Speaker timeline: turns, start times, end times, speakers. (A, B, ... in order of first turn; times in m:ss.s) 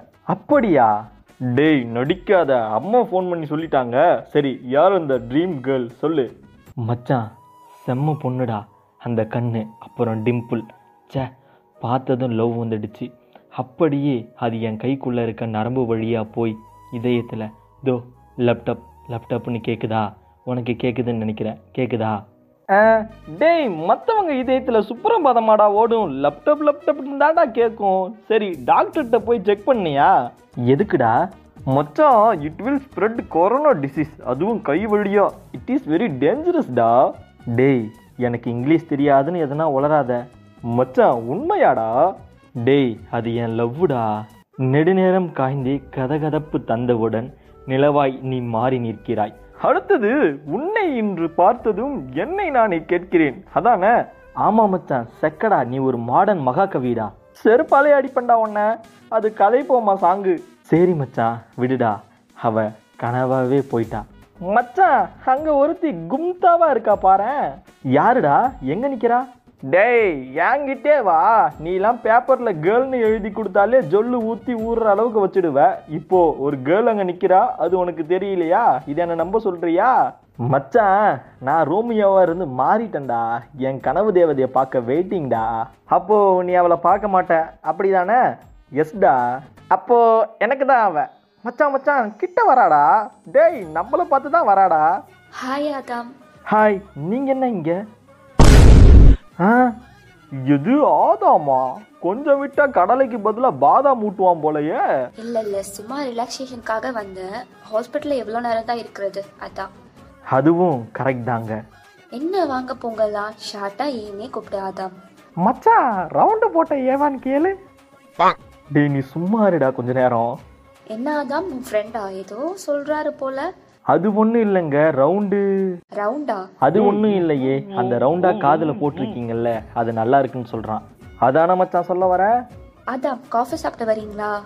0:00.3-0:00.9 A
0:01.5-0:06.3 A
0:06.8-0:07.2 A
0:07.8-0:11.3 A
0:11.8-0:22.2 A
0:22.8-0:30.1 A
0:30.7-0:31.2 A
0:31.7-0:40.2 A
0:40.7-0:41.9 A
0:42.6-0:44.1 A
0:44.7-0:53.9 A
0:54.4-1:07.4 A
1:07.9-1:19.9 A
1:20.5-1:28.2 A
1:28.8-1:29.2 A
1:29.7-1:34.9 A
1:35.4-1:36.1 B
1:36.5-1:37.8 A
1:39.4-1:39.7 A
1:40.4-1:44.8 A
1:45.2-1:49.7 B
1:50.3-1:51.5 A
1:52.2-1:54.9 B
1:55.4-1:57.5 A
1:58.7-2:00.3 A
2:00.9-2:03.4 B
2:03.9-2:05.4 A
2:06.0-2:06.4 B
2:06.6-2:12.3 A
2:12.9-2:14.3 B